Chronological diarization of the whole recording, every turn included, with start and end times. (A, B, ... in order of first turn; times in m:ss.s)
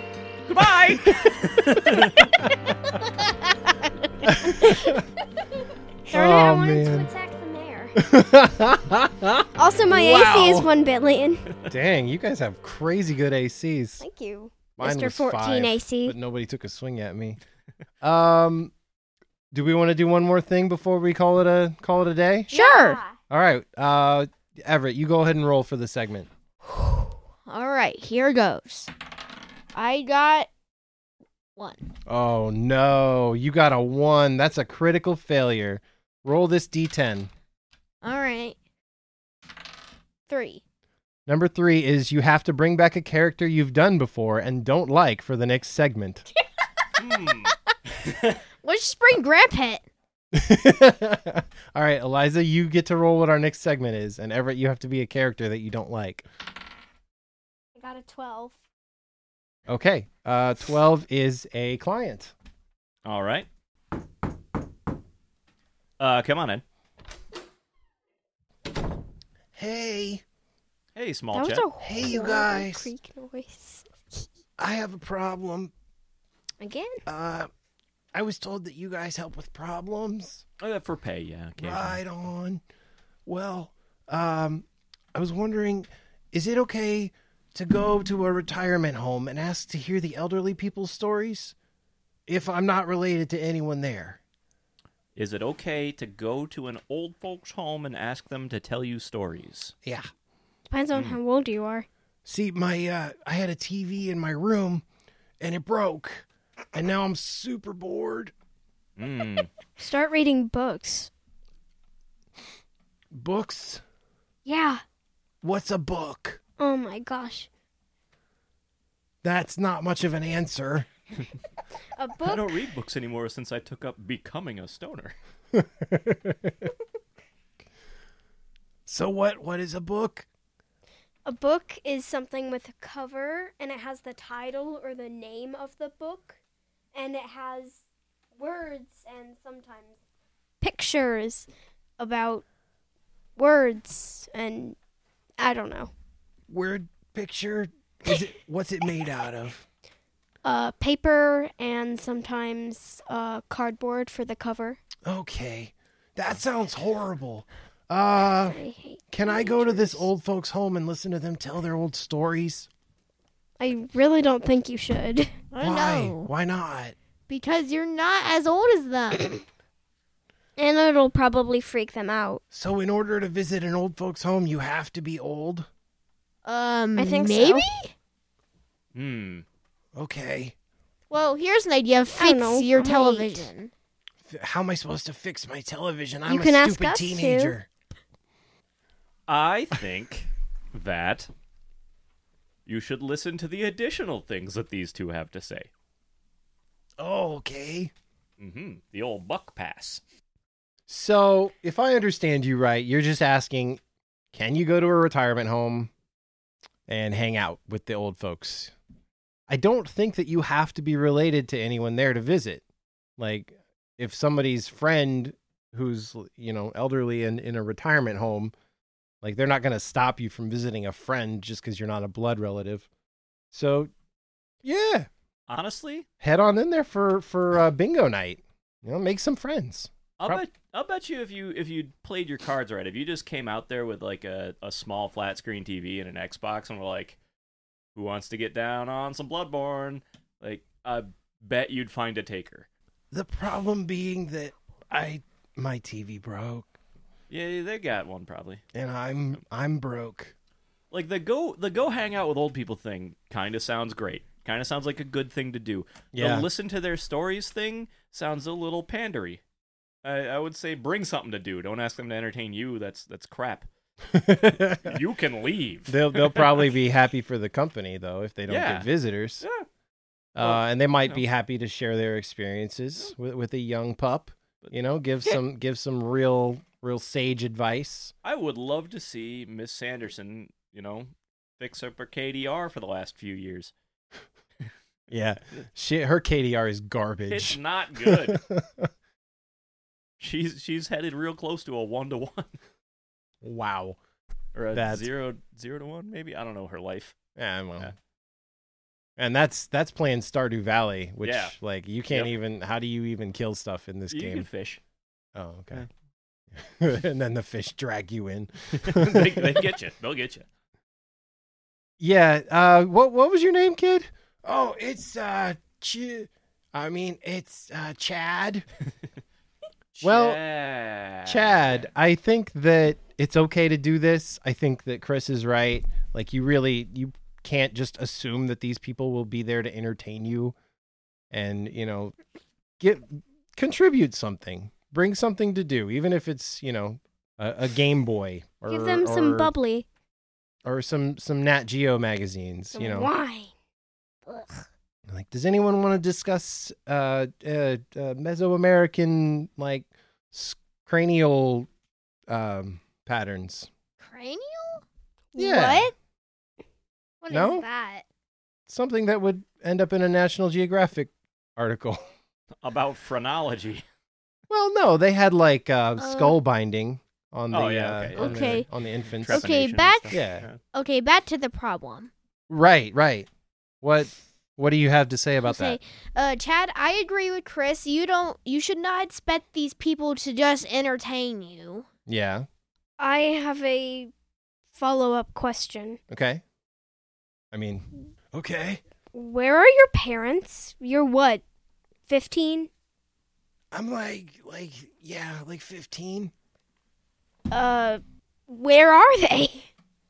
0:00.5-0:02.4 A
0:01.1-0:01.4 B
0:01.9-0:02.5 B
0:04.2-0:05.0 B
0:06.1-0:08.0 C
0:06.1-0:07.1 B
0:08.0-0:10.7 B
0:09.6-0:11.5 C
0:11.7-0:14.0 B
0:14.0-0:16.2 C
0:14.8-0:17.4 B
0:18.0-0:18.7 B
0:19.5-0:22.5 B
0:22.5-0:23.0 D
0:22.5-0:23.2 C
0:23.3-0:26.3 B
0:26.8-0:28.9 D
0:29.7-0:30.5 D
0:31.6-0:31.8 D
0:32.1-0:37.3 B
0:38.0-0:38.6 D
0:40.3-0:40.6 D
0:41.3-0:46.3 B
0:47.0-0:48.4 A
0:48.6-0:49.8 D
0:50.3-0:56.2 B
0:57.8-0:58.6 C
0:59.7-1:02.3 B
1:03.0-1:03.5 A
1:06.0-1:06.6 A
1:09.6-1:10.2 B
1:11.0-1:11.7 A
1:11.3-1:13.9 C
1:11.8-1:12.9 B
1:14.6-1:15.7 B
1:16.6-1:17.0 C
1:17.1-1:17.5 B
1:18.1-1:20.4 B
1:20.6-1:22.0 A
1:21.6-1:22.6 B
1:23.3-1:31.6 B
1:32.3-1:34.2 B
1:35.2-1:39.7 A
1:39.8-1:40.1 B
1:40.7-1:41.9 C
1:40.9-1:41.2 A
1:42.3-1:44.8 B
1:45.4-1:48.3 B
1:49.0-1:49.5 A
1:49.8-1:51.1 C
1:53.1-1:53.8 B
1:54.5-1:54.8 C
1:55.4-1:56.4 B
1:56.6-1:57.5 C
1:59.2-2:00.9 B
2:02.0-2:02.6 C
2:02.2-2:05.1 A
2:05.5-2:06.7 B
2:08.9-2:10.3 B
2:11.2-2:16.4 C
2:16.9-2:17.8 C
2:18.4-2:20.0 C
2:20.6-2:22.4 C
2:23.4-2:24.8 C
2:25.4-2:25.9 C
2:26.5-2:29.7 B
2:30.4-2:34.8 C
2:35.0-2:38.6 B
2:38.3-2:40.1 C
2:39.1-2:42.7 B
2:43.6-2:45.3 C
2:45.5-2:46.3 D
2:45.6-2:47.0 B
2:47.3-2:49.4 D
2:50.6-2:52.4 C
2:52.5-2:55.7 B
2:56.4-2:57.9 D
2:57.0-2:57.7 C
2:58.9-2:59.4 A
3:00.0-3:00.6 B
3:01.1-3:03.7 D
3:02.1-3:03.5 C
3:04.3-3:07.7 B
3:06.3-3:07.6 C
3:09.3-3:11.3 A
3:12.7-3:15.7 A
3:17.0-3:17.9 B
3:18.4-3:20.0 A
3:20.9-3:23.8 B
3:24.3-3:25.9 B
3:26.9-3:28.7 B
3:29.5-3:32.6 B
3:33.2-3:38.5 B
3:39.2-3:42.9 B
3:43.5-3:43.9 B
3:44.6-3:45.1 B
3:45.5-3:46.1 A
3:46.2-3:50.4 B
3:50.2-3:57.2 A
3:58.0-4:02.7 A
4:03.1-4:06.7 B
4:07.3-4:08.6 A
4:08.7-4:10.3 B
4:10.9-4:19.4 A
4:16.1-4:16.5 B
4:20.0-4:23.7 A
4:24.1-4:24.9 B
4:24.8-4:26.7 A
4:25.9-4:29.4 B
4:28.5-4:28.9 A
4:29.4-4:29.7 A
4:30.4-4:38.1 B
4:30.4-4:31.2 A
4:38.2-4:43.7 A
4:45.1-4:48.9 B
4:47.3-4:48.4 A
4:50.2-4:52.6 A
4:53.4-4:54.0 B
4:54.6-4:57.2 A
4:54.7-4:55.1 B
4:57.4-4:57.9 B
4:59.2-5:04.5 B
5:01.2-5:01.6 A
5:04.1-5:04.8 A
5:05.4-5:05.8 B
5:06.5-5:09.7 B
5:08.8-5:10.5 A
5:12.0-5:18.7 B
5:19.9-5:21.8 A
5:20.0-5:20.4 B
5:21.3-5:30.6 B
5:31.3-5:32.2 B
5:32.8-5:39.5 B
5:38.7-5:39.9 C
5:40.6-5:43.1 B
5:42.8-5:43.5 C
5:44.3-5:44.6 D
5:45.1-5:51.7 B
5:52.3-5:53.7 B
5:54.0-5:54.8 D
5:55.4-5:55.9 D
5:55.4-5:55.9 B
5:57.2-5:58.0 D
5:57.3-5:57.6 B
5:58.7-6:02.0 B
6:02.6-6:03.8 A
6:04.5-6:09.5 B
6:06.0-6:06.4 D
6:07.5-6:08.6 A
6:08.2-6:08.7 D
6:09.2-6:10.6 A
6:09.3-6:10.2 D
6:10.1-6:10.5 B
6:10.7-6:12.1 D
6:12.5-6:13.3 B
6:13.8-6:15.8 B
6:15.4-6:21.9 D
6:22.1-6:22.5 B
6:23.0-6:24.1 C
6:24.8-6:26.0 C
6:26.1-6:26.4 B
6:27.5-6:28.8 B
6:29.1-6:31.4 C
6:32.1-6:32.7 C
6:33.7-6:36.3 B
6:37.5-6:39.7 C